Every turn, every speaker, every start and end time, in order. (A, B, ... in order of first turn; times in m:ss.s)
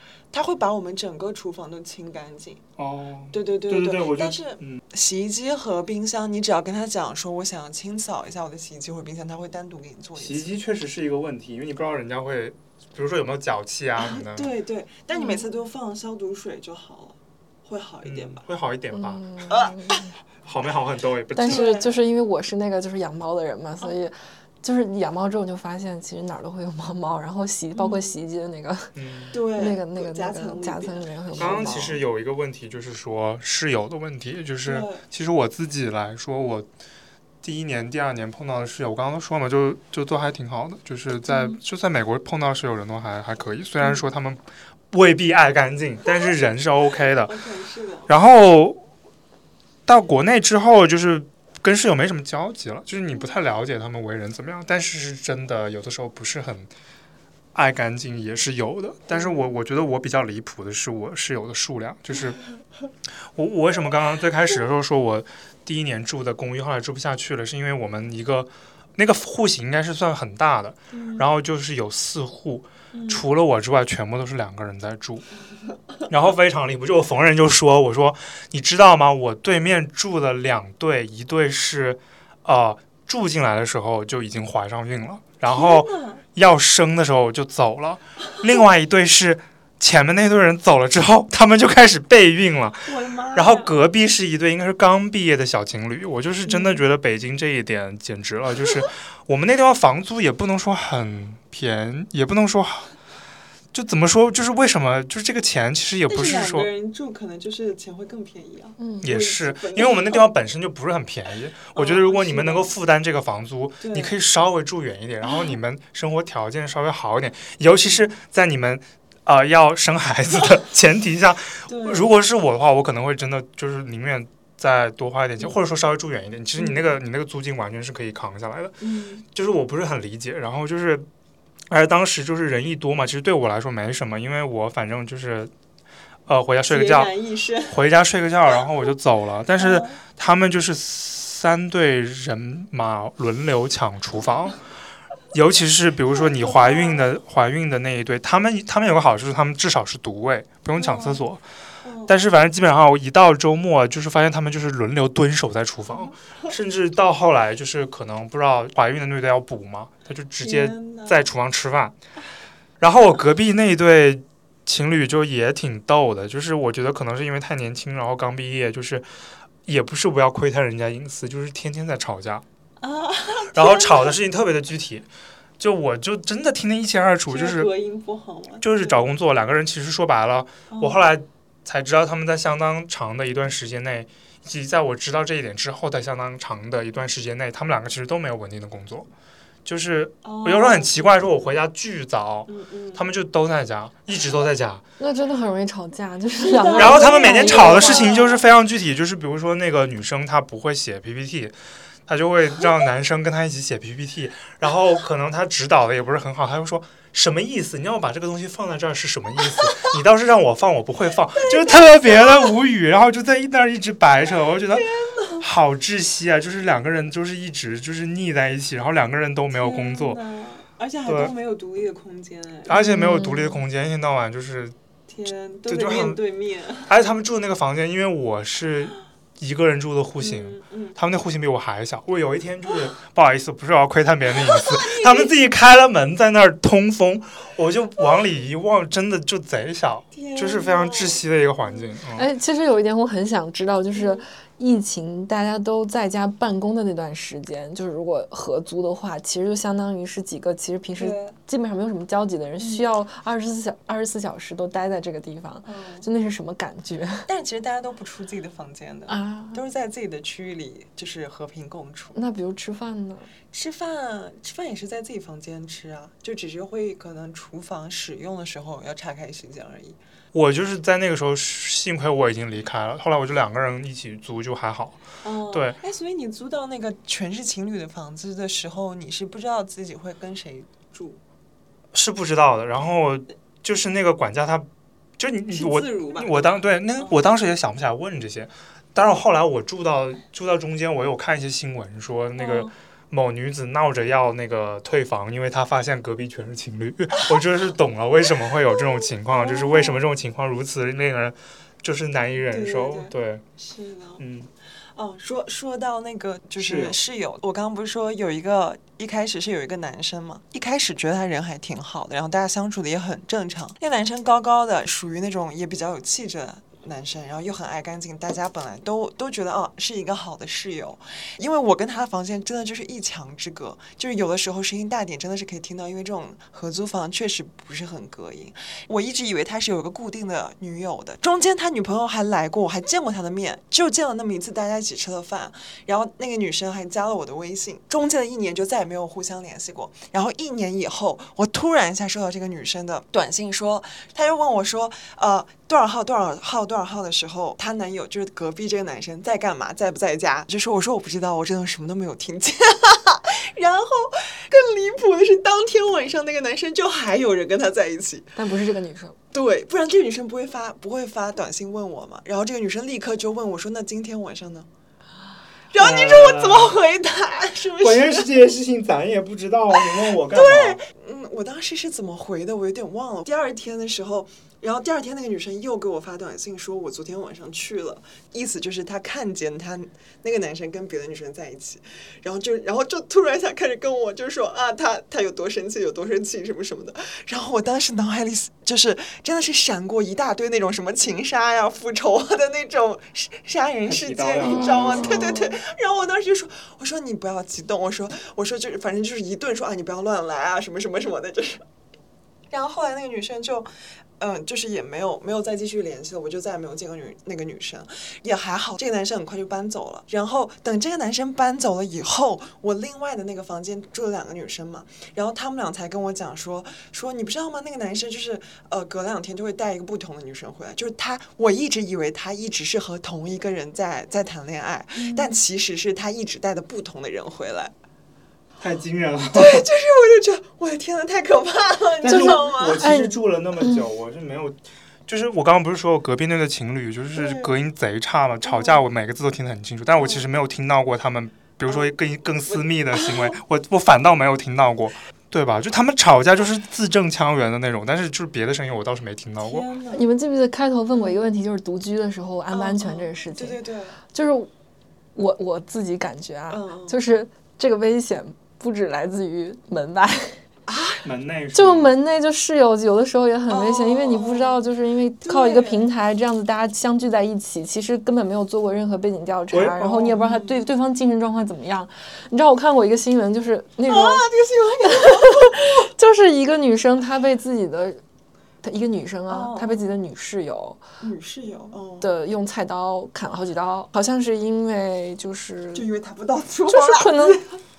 0:00.3-0:02.6 A
0:02.8-0:04.8 B
0:03.3-0:10.5 A
0:10.2-0:14.5 B
0:14.0-0:18.4 A
0:15.1-0:15.5 C
0:18.0-0:19.2 B
0:18.9-0:20.1 C
0:19.5-0:20.1 A
0:20.4-0:21.7 B
0:21.3-0:28.9 C
0:21.4-0:22.0 A
0:27.7-0:28.2 A
0:29.0-0:29.4 B
0:29.3-0:32.0 A
0:29.5-0:32.0 C
0:31.4-0:36.7 B
0:34.6-0:35.0 A
0:37.4-0:47.4 B
0:47.1-0:48.1 A
0:48.1-0:48.8 B
0:49.9-0:56.7 B
0:57.6-1:02.4 B
0:59.1-0:59.4 A
1:03.4-1:15.3 B
1:10.9-1:11.2 A
1:12.9-1:13.2 A
1:16.1-1:42.9 B
1:25.5-1:26.2 A
1:32.9-1:33.8 A
1:36.5-1:36.8 A
1:43.7-1:46.7 B
1:46.1-1:50.3 A
1:48.8-1:49.1 C
1:49.0-2:08.8 B
1:51.8-1:52.7 A
1:53.8-1:54.1 A
2:01.7-2:02.1 A
2:06.6-2:06.9 A
2:08.8-2:09.2 A
2:09.3-2:11.1 B
2:11.7-2:15.5 B
2:16.3-2:17.2 B
2:16.7-2:17.8 A
2:17.7-2:24.6 B
2:19.6-2:20.0 A
2:25.3-2:31.4 B
2:26.1-2:27.0 A
2:30.8-2:31.2 A
2:31.8-2:32.1 A
2:32.1-2:42.0 B
2:40.4-2:41.3 A
2:42.8-2:49.1 B
2:49.7-2:52.4 B
2:52.8-2:54.2 A
2:53.5-2:55.1 B
2:55.6-2:57.7 B
2:57.3-2:59.1 A
2:58.6-3:09.1 B
3:00.7-3:01.0 A
3:09.6-3:14.8 B
3:10.2-3:11.6 A
3:12.5-3:13.1 A
3:15.0-3:18.2 C
3:16.4-3:18.4 A
3:16.8-3:21.6 B
3:22.1-3:40.2 B
3:31.3-3:32.5 A
3:34.7-3:35.4 A
3:39.5-3:42.8 A
3:41.1-3:41.3 B
3:42.7-3:44.8 B
3:42.7-3:43.6 C
3:45.1-3:46.9 A
3:45.7-3:46.2 B
3:46.9-4:02.3 B
3:50.2-3:51.0 A
3:54.4-3:55.3 A
4:00.1-4:01.8 A
4:02.2-4:17.3 C
4:03.9-4:04.2 A
4:11.0-4:11.4 A
4:12.6-4:12.9 A
4:15.6-4:16.1 A
4:17.2-4:22.2 A
4:19.1-4:19.6 C
4:22.2-4:23.3 C
4:23.5-4:30.0 A
4:30.3-4:35.8 B
4:35.2-4:41.2 A
4:41.9-4:44.7 B
4:45.2-5:03.4 B
4:45.5-4:47.2 A
4:52.4-4:52.7 A
4:59.0-5:00.0 A
5:02.4-5:04.2 A
5:04.2-5:04.5 B
5:05.0-5:58.4 A
5:06.6-5:07.0 B
5:58.4-5:59.2 C
5:59.3-6:04.7 A
6:05.7-6:08.3 A
6:05.8-6:06.8 B
6:07.8-6:10.8 B
6:09.7-6:41.6 A
6:33.9-6:35.3 B
6:34.4-6:35.6 C
6:42.5-7:07.7 A
7:05.0-7:05.4 C
7:08.6-7:09.6 B
7:09.3-7:12.8 A
7:12.0-7:29.7 B
7:12.1-7:13.8 C
7:17.2-7:17.5 A
7:18.4-7:18.8 A
7:20.0-7:20.2 A
7:21.7-7:23.4 A
7:29.4-7:30.1 A
7:29.9-7:33.6 C
7:31.0-7:31.2 A
7:32.5-7:34.0 A
7:34.1-7:34.5 C
7:35.2-7:40.4 C
7:36.5-7:37.0 A
7:40.7-7:41.0 A
7:41.0-7:42.0 B
7:41.6-7:54.3 C
7:43.5-7:44.6 A
7:45.2-7:45.9 A
7:49.5-7:50.2 B
7:50.2-7:50.7 A
7:53.9-7:55.9 A
7:54.8-7:58.0 C
7:58.6-8:00.8 C
7:59.3-8:00.0 A
8:01.0-8:02.1 A
8:02.0-8:05.9 C
8:05.7-8:07.6 A
8:06.7-8:07.4 C